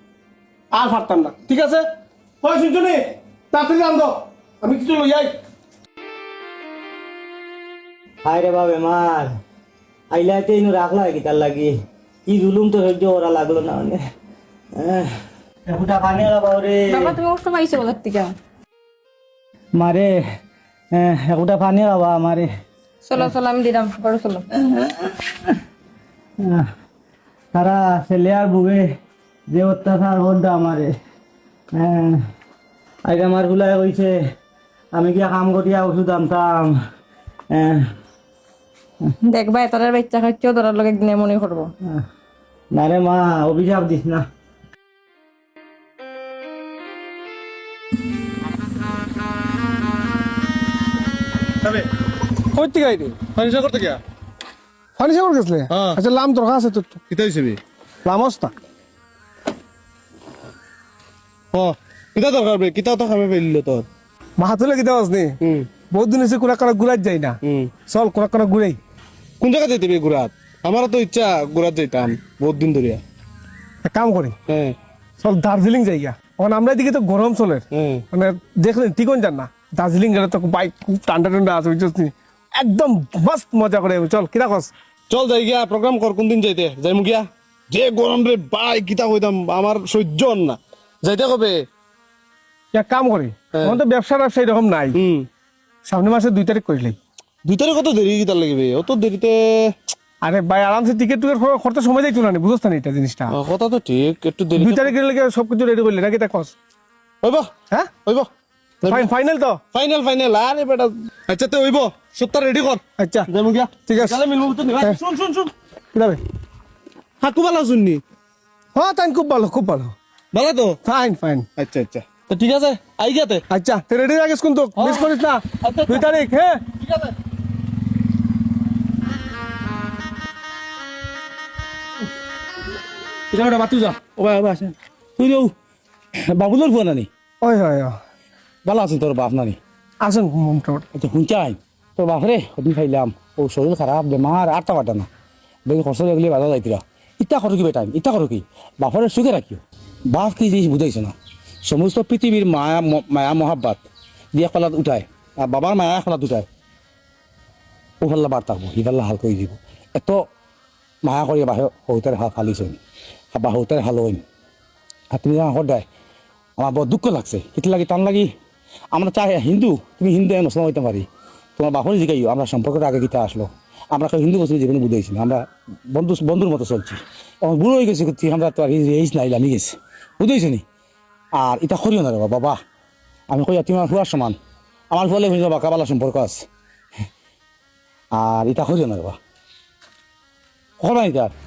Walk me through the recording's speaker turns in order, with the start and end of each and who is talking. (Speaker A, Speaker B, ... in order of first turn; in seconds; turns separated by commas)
Speaker A: 0.7-1.9, Speaker A: 2.4-5.3, Speaker B: 8.2-9.3, Speaker B: 10.1-11.7, Speaker B: 12.3-14.0, Speaker B: 14.8-15.1, Speaker B: 15.7-17.2, Speaker C: 16.9-18.4, Speaker B: 19.8-20.2, Speaker B: 20.9-22.5, Speaker C: 23.1-24.5, Speaker B: 24.6-25.6, Speaker B: 26.4-26.7, Speaker B: 27.5-28.9, Speaker B: 29.5-30.9, Speaker B: 31.8-32.2, Speaker B: 33.1-34.2, Speaker B: 34.9-36.8, Speaker B: 37.5-37.9, Speaker C: 39.2-41.7, Speaker B: 42.7-44.3, Speaker A: 52.5-53.3, Speaker D: 53.4-54.0, Speaker A: 55.0-57.0, Speaker D: 55.7-56.0, Speaker D: 57.1-57.6, Speaker A: 58.0-58.5, Speaker D: 61.5-63.9, Speaker A: 64.4-68.8, Speaker D: 65.4-65.7, Speaker D: 67.4-67.7, Speaker D: 69.4-73.0, Speaker A: 73.8-74.4, Speaker D: 74.5-74.8, Speaker A: 75.2-84.7, Speaker D: 77.7-78.0, Speaker D: 85.1-91.7, Speaker A: 92.7-95.0, Speaker D: 95.0-95.3, Speaker A: 95.9-97.0, Speaker D: 97.5-99.7, Speaker A: 100.2-103.4, Speaker D: 103.3-104.9, Speaker A: 104.6-106.5, Speaker D: 107.2-107.5, Speaker D: 108.8-109.1, Speaker A: 108.9-109.6, Speaker D: 109.7-115.5, Speaker A: 113.0-113.3, Speaker A: 113.8-114.2, Speaker A: 115.9-116.2, Speaker D: 117.2-118.0, Speaker A: 118.8-119.9, Speaker D: 120.3-120.8, Speaker A: 120.8-121.5, Speaker D: 121.6-123.4, Speaker A: 123.5-126.6, Speaker D: 124.8-126.0, Speaker D: 126.8-127.1, Speaker E: 133.3-135.5, Speaker E: 136.3-137.1, Speaker A: 137.4-137.9, Speaker E: 138.7-139.6, Speaker A: 140.0-140.8, Speaker E: 140.9-145.1, Speaker E: 145.7-151.2, Speaker E: 151.7-153.8, Speaker E: 154.3-156.5, Speaker E: 158.0-160.2, Speaker E: 161.0-162.8, Speaker E: 163.3-164.2, Speaker E: 165.1-165.9, Speaker E: 166.6-168.3, Speaker E: 168.9-171.1, Speaker E: 171.6-180.6, Speaker E: 181.3-182.6, Speaker E: 183.3-184.4, Speaker E: 184.9-186.5, Speaker E: 188.2-189.2, Speaker E: 190.8-191.3